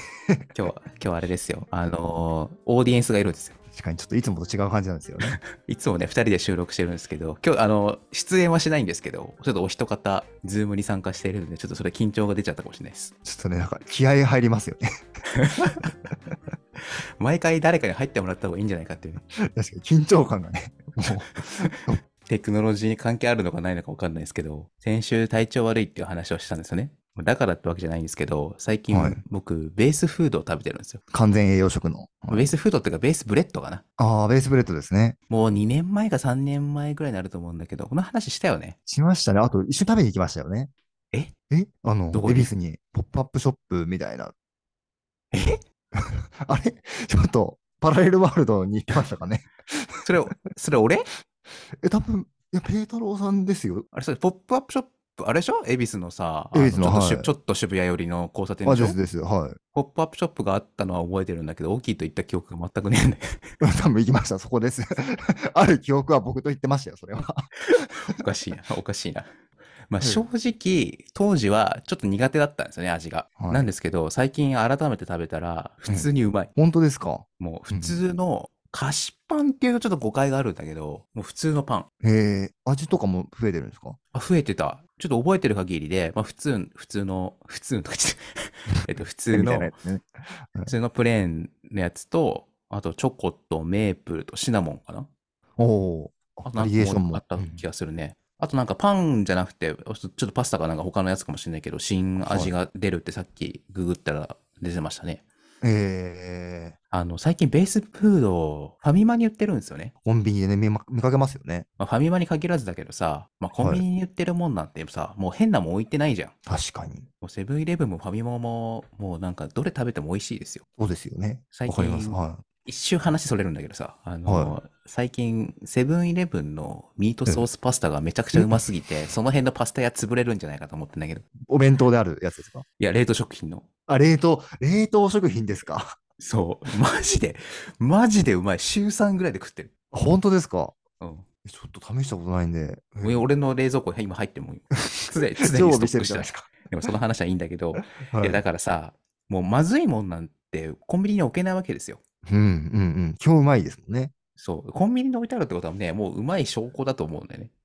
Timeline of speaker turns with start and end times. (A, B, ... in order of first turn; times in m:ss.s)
0:00.5-0:03.6 A
0:03.7-0:05.4 B
0:05.6-0:13.1 A
0:13.2-0:14.8 B
0:15.3-0:15.9 A
0:17.2-0:19.2 A
0:19.5-0:22.0 B
0:22.2-0:31.0 A
0:28.9-0:29.2 B
0:31.1-0:32.5 B
0:32.3-0:33.8 A
0:34.0-0:35.2 B
0:35.3-0:38.8 A
0:38.9-0:40.7 B
0:41.5-0:44.3 B
0:42.1-0:42.5 A
0:45.3-0:45.6 A
0:46.0-0:50.3 B
0:50.1-0:51.1 A
0:51.8-0:53.9 B
0:53.9-0:59.0 A
0:56.5-0:57.3 B
0:58.6-0:59.6 B
0:59.7-1:03.2 A
1:03.6-1:08.2 B
1:08.1-1:09.3 A
1:09.9-1:16.5 A
1:13.4-1:13.7 B
1:15.9-1:18.0 B
1:17.4-1:21.9 A
1:22.0-1:24.0 B
1:24.1-1:28.2 A
1:28.8-1:29.8 A
1:29.3-1:30.7 B
1:30.7-1:35.1 A
1:35.6-1:37.6 B
1:36.4-1:45.2 A
1:42.2-1:42.6 B
1:45.6-1:46.8 B
1:46.9-1:49.9 A
1:50.0-1:51.7 B
1:51.8-1:56.3 A
1:53.6-1:53.8 B
1:56.5-1:57.1 B
1:57.2-2:00.6 A
2:00.8-2:02.4 B
2:01.5-2:11.2 A
2:04.2-2:04.6 B
2:08.3-2:08.6 B
2:11.5-2:12.6 B
2:12.8-2:13.7 A
2:13.9-2:15.9 B
2:16.2-2:19.7 A
2:19.9-2:20.8 B
2:21.0-2:21.2 A
2:21.4-2:23.3 B
2:23.0-2:32.0 A
2:25.0-2:26.5 B
2:27.8-2:28.4 B
2:32.2-2:34.1 B
2:34.4-2:37.5 A